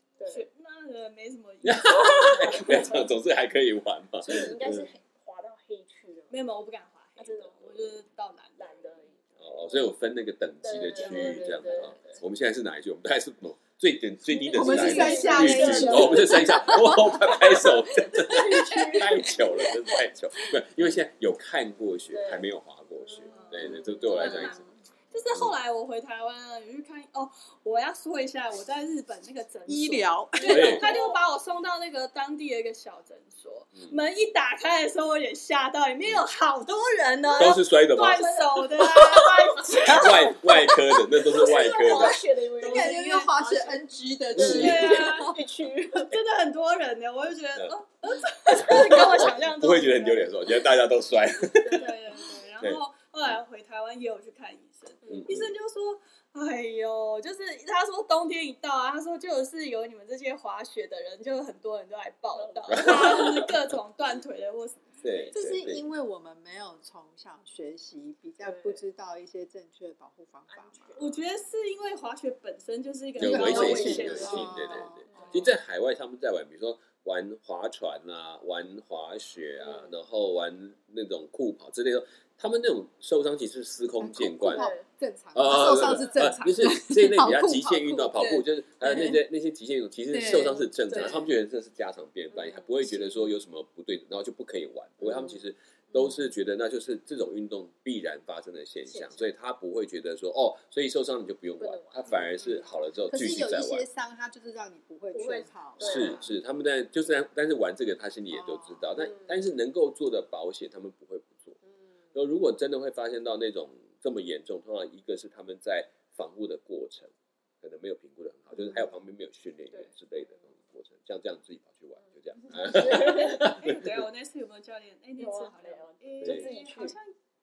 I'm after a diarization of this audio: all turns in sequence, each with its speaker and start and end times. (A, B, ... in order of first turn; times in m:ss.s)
0:00.2-0:00.5 A
0:00.3-0:03.1 B
0:01.6-0:04.9 C
0:04.2-0:06.4 A
0:06.3-0:09.0 B
0:07.2-0:08.0 A
0:08.6-0:09.9 A
0:09.4-0:24.6 C
0:10.6-0:12.2 A
0:10.8-0:12.0 B
0:14.3-0:17.1 A
0:14.6-0:19.9 D
0:14.8-0:16.1 B
0:18.2-0:19.4 A
0:22.1-0:22.5 A
0:23.0-0:24.6 A
0:23.3-0:40.8 B
0:29.7-0:30.8 D
0:30.4-0:31.2 A
0:30.5-0:30.9 C
0:33.7-0:34.0 C
0:36.0-0:36.3 C
0:37.3-0:40.6 A
0:37.4-0:38.3 C
0:39.8-0:42.3 C
0:41.3-0:43.8 A
0:41.4-0:43.3 B
0:42.6-0:45.4 D
0:44.4-0:44.9 C
0:44.4-0:45.4 B
0:44.4-0:46.2 A
0:46.0-0:50.6 B
0:48.5-0:51.8 C
0:48.6-0:49.3 A
0:51.6-0:52.5 A
0:51.7-1:05.4 B
0:52.6-0:53.4 C
0:55.0-0:55.3 A
0:55.1-0:55.5 C
1:02.3-1:03.4 A
1:02.7-1:03.6 C
1:05.0-1:05.8 C
1:05.3-1:11.0 D
1:08.4-1:08.8 A
1:10.5-1:11.2 A
1:11.0-1:15.5 B
1:13.2-1:24.7 C
1:13.2-1:15.6 A
1:13.3-1:15.1 D
1:19.6-1:20.0 A
1:24.0-1:29.2 D
1:24.5-1:24.9 A
1:25.4-1:43.9 C
1:30.1-1:31.1 D
1:30.9-1:31.2 A
1:32.3-1:32.7 A
1:32.9-1:33.3 D
1:35.0-1:35.4 A
1:38.9-1:39.3 A
1:41.6-1:42.6 A
1:43.1-1:46.3 D
1:45.1-1:46.3 A
1:45.8-1:51.6 C
1:48.3-1:49.1 D
1:49.0-1:49.4 A
1:51.6-1:52.1 A
1:52.1-1:57.1 C
1:57.6-2:04.1 C
1:59.7-2:00.5 A
2:02.0-2:03.6 A
2:02.9-2:07.1 B
2:05.2-2:07.0 A
2:06.2-2:06.5 C